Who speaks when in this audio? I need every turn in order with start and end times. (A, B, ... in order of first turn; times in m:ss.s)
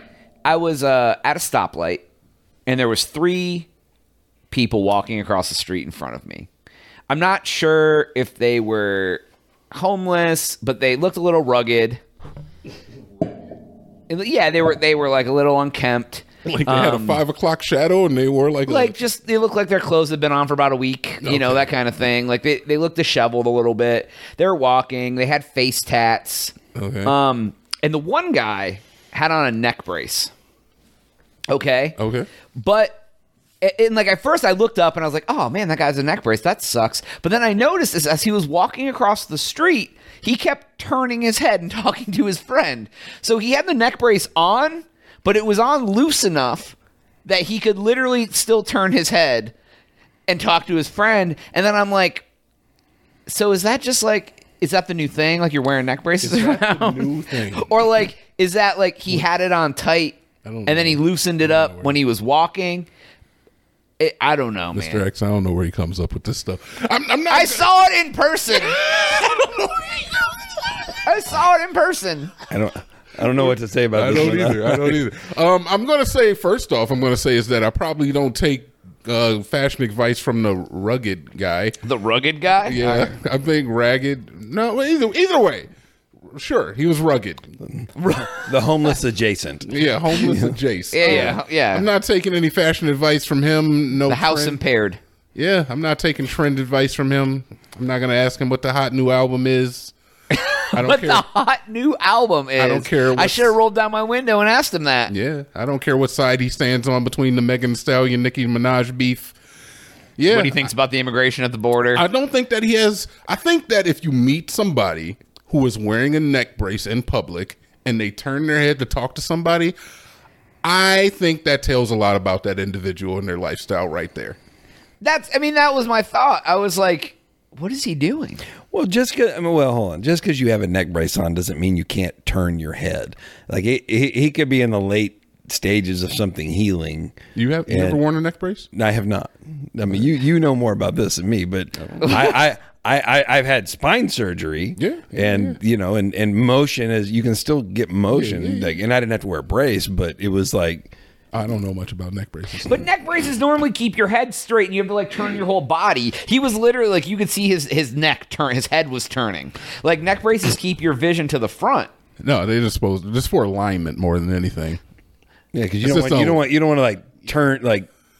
0:00.4-0:02.0 A
0:02.7-0:03.7 A
0:04.5-0:06.5 A
0:07.1-0:12.0 A
0:14.1-0:17.2 A
0:16.4-0:19.0 B
0:18.7-0:30.3 A
0:21.2-0:21.7 B
0:26.7-0:27.1 B
0:31.5-0:32.0 A
0:32.0-0:32.3 B
0:32.6-0:33.0 A
0:33.6-0:49.5 A
0:50.3-0:52.2 A
0:53.3-1:02.9 A
0:56.2-0:57.7 B
1:00.4-1:02.0 B
1:04.0-1:05.0 A
1:04.7-1:07.8 B
1:07.3-1:08.8 A
1:08.5-1:11.0 B
1:11.0-1:12.3 A
1:12.5-1:15.0 C
1:13.4-1:21.8 B
1:21.8-1:23.1 A
1:22.6-1:25.7 B
1:26.3-1:27.5 B
1:27.8-1:30.6 C
1:28.0-1:28.5 A
1:29.6-1:34.6 B
1:30.9-1:31.8 A
1:34.0-1:35.0 A
1:35.3-1:39.9 B
1:40.3-1:45.1 A
1:40.7-1:41.2 B
1:42.6-1:43.6 B
1:45.1-1:49.3 B
1:50.2-1:50.7 B
1:50.3-1:52.0 A
1:51.9-1:59.7 B
2:00.6-2:04.4 B
2:05.0-2:08.4 A
2:08.7-2:18.0 C
2:17.3-2:18.7 B
2:18.7-2:30.9 C
2:22.0-2:22.3 A
2:24.8-2:25.6 B
2:28.1-2:28.7 B
2:31.3-2:32.9 B
2:32.6-2:41.9 A
2:42.2-2:44.8 B
2:45.5-2:47.9 C
2:45.8-2:46.4 B